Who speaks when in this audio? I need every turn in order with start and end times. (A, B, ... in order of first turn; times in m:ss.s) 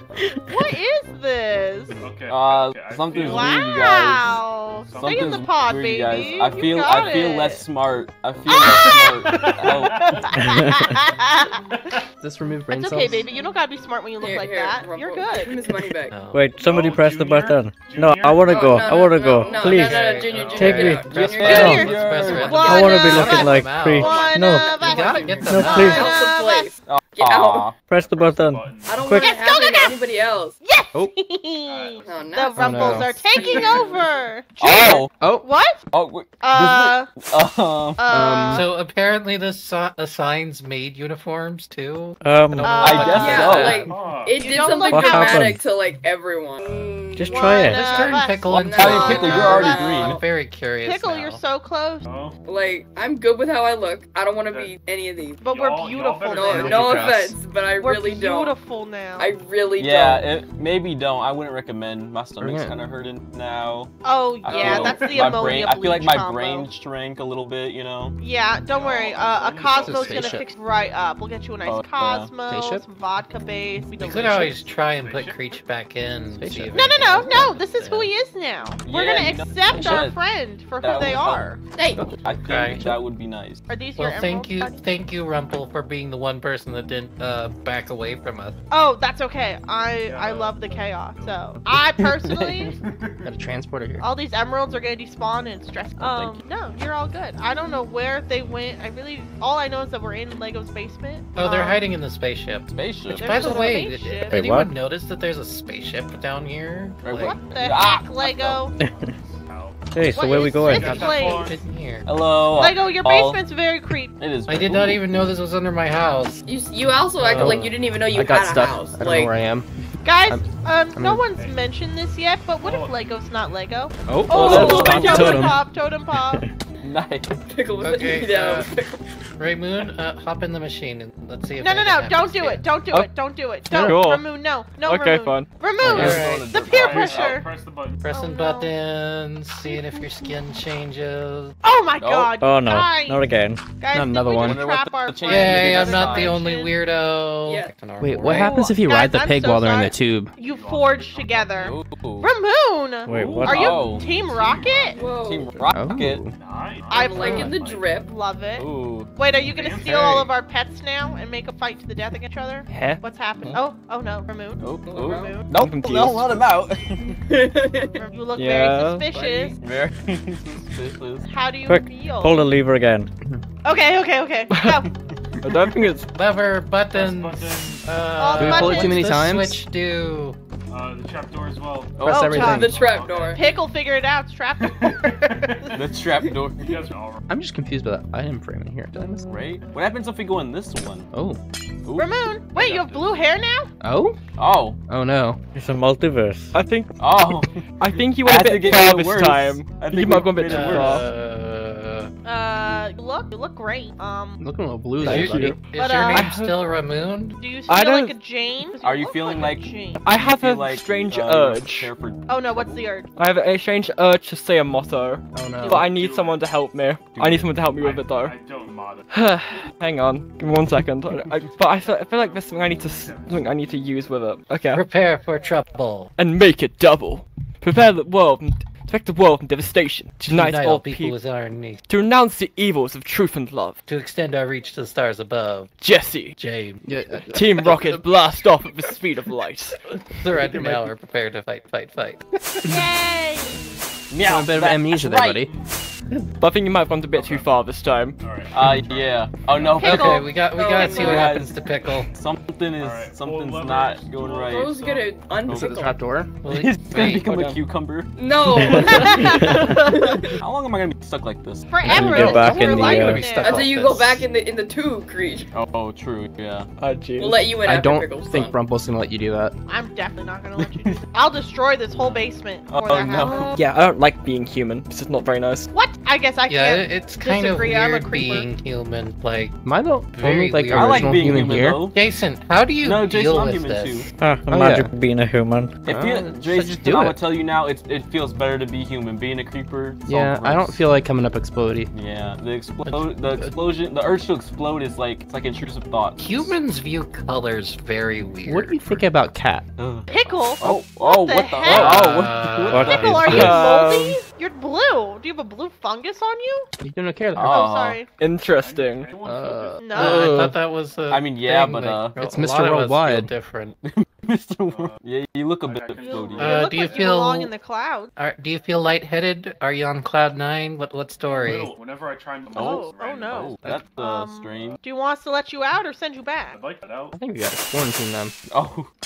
0:00.4-0:02.0 A
0:02.0-0:06.7 B
0:02.3-0:04.3 C
0:03.2-0:07.6 A
0:04.9-0:10.1 C
0:08.5-0:11.5 A
0:09.3-0:10.4 B
0:10.4-0:11.0 D
0:11.7-0:12.0 B
0:12.2-0:13.3 E
0:12.7-0:15.8 A
0:14.2-0:16.2 F
0:16.1-0:16.4 G
0:16.3-0:21.8 D
0:16.6-0:21.5 B
0:18.5-0:21.4 F
0:19.8-0:20.2 G
0:20.6-0:23.6 C
0:21.3-0:26.7 A
0:21.5-0:24.1 G
0:22.1-0:22.6 F
0:22.6-0:24.6 D
0:24.0-0:27.7 F
0:24.8-0:26.0 G
0:25.4-0:26.1 D
0:26.8-0:27.8 C
0:27.9-0:29.3 D
0:27.9-0:29.3 B
0:28.8-0:30.6 F
0:29.1-0:35.8 A
0:31.7-0:32.6 B
0:32.0-0:34.1 F
0:32.6-0:33.2 E
0:33.5-0:33.9 C
0:33.5-0:34.3 B
0:34.6-0:35.1 C
0:35.2-0:35.4 E
0:35.9-0:38.0 C
0:36.4-0:37.2 A
0:38.0-0:38.6 A
0:38.1-0:38.6 E
0:38.5-0:43.9 G
0:42.2-0:43.1 D
0:42.6-0:43.7 A
0:42.8-0:43.8 C
0:43.1-0:49.9 F
0:43.8-0:44.5 B
0:44.3-0:45.5 A
0:44.7-0:45.6 D
0:47.1-0:48.0 D
0:47.3-0:50.2 A
0:47.7-0:51.4 G
0:48.7-0:50.2 C
0:50.8-0:52.1 A
0:52.0-0:52.4 B
0:52.4-0:55.5 F
0:54.5-0:54.7 B
0:55.4-0:57.0 A
0:55.5-0:57.2 B
0:56.3-0:58.6 F
0:56.5-0:56.9 C
0:56.7-0:57.3 E
0:57.7-0:59.3 A
0:59.2-1:00.3 F
0:59.8-1:03.9 C
1:02.4-1:02.8 E
1:04.0-1:06.7 A
1:04.4-1:08.2 C
1:04.6-1:05.7 B
1:08.2-1:14.6 A
1:08.7-1:10.4 B
1:09.7-1:10.4 E
1:11.6-1:12.3 C
1:12.5-1:12.8 E
1:14.0-1:18.1 G
1:14.9-1:15.4 B
1:16.3-1:16.9 E
1:16.7-1:21.6 A
1:18.8-1:20.2 C
1:20.8-1:23.6 C
1:21.8-1:22.0 F
1:22.0-1:23.0 E
1:22.5-1:22.8 G
1:23.7-1:24.8 A
1:24.0-1:28.6 G
1:28.7-1:32.8 A
1:30.0-1:31.4 B
1:32.0-1:32.7 C
1:32.7-1:33.3 B
1:33.2-1:34.1 E
1:34.0-1:41.8 A
1:36.0-1:36.4 C
1:41.4-1:42.7 G
1:42.7-1:43.7 C
1:43.1-1:44.5 A
1:43.2-1:47.4 G
1:44.3-1:44.7 D
1:47.0-1:48.7 C
1:47.1-1:48.7 A
1:48.8-1:51.6 B
1:48.8-1:49.1 D
1:49.9-1:51.3 D
1:50.0-1:51.5 A
1:50.8-1:51.0 E
1:51.3-1:52.1 G
1:52.1-1:53.4 C
1:52.5-1:54.1 A
1:54.2-1:55.1 C
1:54.5-1:56.4 G
1:56.4-1:59.4 F
1:57.2-1:57.7 G
1:58.1-1:59.7 E
2:00.0-2:06.4 A
2:00.3-2:01.2 E
2:01.3-2:01.6 B
2:02.6-2:03.0 B
2:04.1-2:05.6 E
2:04.3-2:05.4 C
2:04.6-2:04.9 F
2:06.8-2:07.4 C
2:07.5-2:09.1 F
2:07.8-2:08.7 G
2:09.4-2:12.7 G
2:11.6-2:17.5 A
2:13.8-2:14.2 H
2:14.8-2:15.6 H
2:15.8-2:16.2 D
2:15.8-2:17.4 C
2:15.8-2:16.4 G
2:16.6-2:18.1 B
2:18.0-2:21.6 G
2:18.1-2:18.7 A
2:19.6-2:20.3 A
2:21.6-2:26.7 A
2:22.0-2:22.3 C
2:22.4-2:23.6 D
2:23.9-2:24.6 E
2:24.4-2:26.4 C
2:25.2-2:28.7 G
2:27.4-2:27.7 F
2:28.0-2:30.3 E
2:28.2-2:35.0 A
2:30.4-2:31.8 B
2:31.6-2:32.3 C
2:33.0-2:33.9 D
2:33.1-2:35.1 B
2:33.4-2:36.2 C
2:35.0-2:35.7 F
2:35.7-2:36.3 E
2:36.3-2:37.9 B
2:36.9-2:45.6 A
2:36.9-2:38.1 F
2:38.6-2:39.1 C
2:39.4-2:40.3 B
2:42.7-2:43.6 E
2:44.6-2:47.1 C
2:44.9-2:45.4 F
2:45.6-2:46.4 H
2:47.3-2:47.9 F
2:48.0-2:49.6 A
2:48.4-2:49.0 H
2:49.0-2:49.6 F
2:49.6-2:51.2 C
2:51.2-2:52.5 A
2:51.6-2:53.1 D
2:53.6-2:54.9 A
2:54.5-2:54.9 H
2:55.4-2:56.1 H
2:56.1-3:00.4 G
2:56.9-2:57.9 B
2:58.2-2:59.0 A
2:58.4-2:59.6 E
3:00.7-3:03.6 B
3:02.0-3:02.6 C
3:02.0-3:02.8 E
3:02.0-3:02.7 A
3:02.6-3:03.4 F
3:03.3-3:05.6 A
3:05.0-3:05.9 B
3:05.8-3:06.8 C
3:06.6-3:07.2 B
3:07.3-3:09.3 E
3:09.3-3:11.1 C
3:11.1-3:11.4 E
3:11.9-3:13.2 C
3:12.0-3:13.7 A
3:13.8-3:14.2 E
3:14.4-3:14.8 C
3:14.9-3:15.4 E
3:15.6-3:16.6 D
3:16.5-3:21.0 H
3:17.0-3:21.0 C
3:20.5-3:22.1 G
3:22.2-3:24.4 A
3:24.4-3:25.6 E
3:25.0-3:25.6 H
3:25.0-3:27.4 G
3:25.7-3:26.2 A
3:27.4-3:30.0 A
3:27.7-3:28.1 H
3:28.8-3:32.9 C
3:30.0-3:31.9 H
3:32.3-3:33.1 A
3:33.2-3:38.4 H
3:35.3-3:35.9 E
3:35.6-3:36.5 B
3:37.1-3:37.5 C
3:37.7-3:39.1 B
3:39.1-3:44.8 H
3:41.4-3:43.6 B
3:44.7-3:46.1 G
3:46.2-3:51.1 H
3:50.3-3:51.8 G
3:51.9-3:53.8 H
3:53.8-3:55.7 G
3:55.8-3:56.3 H
3:56.4-3:56.8 G
3:56.9-3:58.0 E
3:57.2-3:59.8 H
4:00.0-4:02.2 G
4:02.6-4:03.6 A
4:04.1-4:05.0 C
4:04.2-4:05.5 E
4:05.0-4:05.5 F
4:05.4-4:05.7 B
4:06.4-4:08.1 H
4:07.1-4:07.6 B
4:08.2-4:09.8 B
4:08.5-4:14.8 C
4:09.6-4:10.3 A
4:09.8-4:12.1 G
4:10.5-4:11.3 F
4:12.8-4:15.6 B
4:14.5-4:15.6 F
4:15.4-4:15.8 C
4:15.5-4:16.3 E
4:16.4-4:17.3 G
4:16.5-4:19.4 C
4:17.0-4:17.6 H
4:18.2-4:19.0 F
4:18.8-4:19.4 D
4:18.9-4:19.3 A
4:19.9-4:20.2 F
4:20.3-4:21.8 C
4:21.7-4:23.7 A
4:21.9-4:23.2 D
4:21.9-4:24.2 G
4:23.4-4:25.5 F
4:25.5-4:26.7 C
4:26.8-4:27.5 H
4:27.2-4:28.5 F
4:27.6-4:29.6 E
4:29.7-4:33.6 A
4:30.6-4:31.0 C
4:32.7-4:33.5 C
4:33.5-4:35.7 H
4:35.7-4:38.5 A
4:36.5-4:39.5 G
4:39.6-4:41.8 E
4:40.1-4:41.4 G
4:40.7-4:42.0 C
4:41.9-4:44.1 G
4:42.8-4:44.1 C
4:44.2-4:45.7 D
4:44.5-4:44.9 E
4:45.8-4:50.9 C
4:45.9-4:47.2 E
4:50.0-4:51.9 E
4:51.9-4:56.5 C
4:56.2-4:59.0 G
4:58.5-4:59.6 E
4:59.8-5:03.6 C
5:00.1-5:02.2 A
5:01.6-5:03.4 G
5:02.7-5:03.7 D
5:02.8-5:06.7 A
5:03.4-5:04.2 H
5:06.8-5:07.6 E
5:07.4-5:08.0 C
5:07.4-5:08.1 A
5:08.2-5:09.1 H
5:08.5-5:09.9 B
5:09.2-5:10.6 E
5:09.8-5:10.4 A
5:09.9-5:13.8 G
5:11.1-5:12.1 C
5:12.2-5:13.3 E
5:13.8-5:16.6 C
5:14.6-5:15.0 B
5:15.6-5:17.2 B
5:16.0-5:18.1 A
5:16.4-5:17.5 G
5:18.2-5:21.7 G
5:21.3-5:23.7 B
5:22.5-5:26.6 A
5:22.5-5:24.8 C
5:24.5-5:24.8 B
5:26.5-5:27.2 B
5:27.1-5:28.3 E
5:28.5-5:28.9 C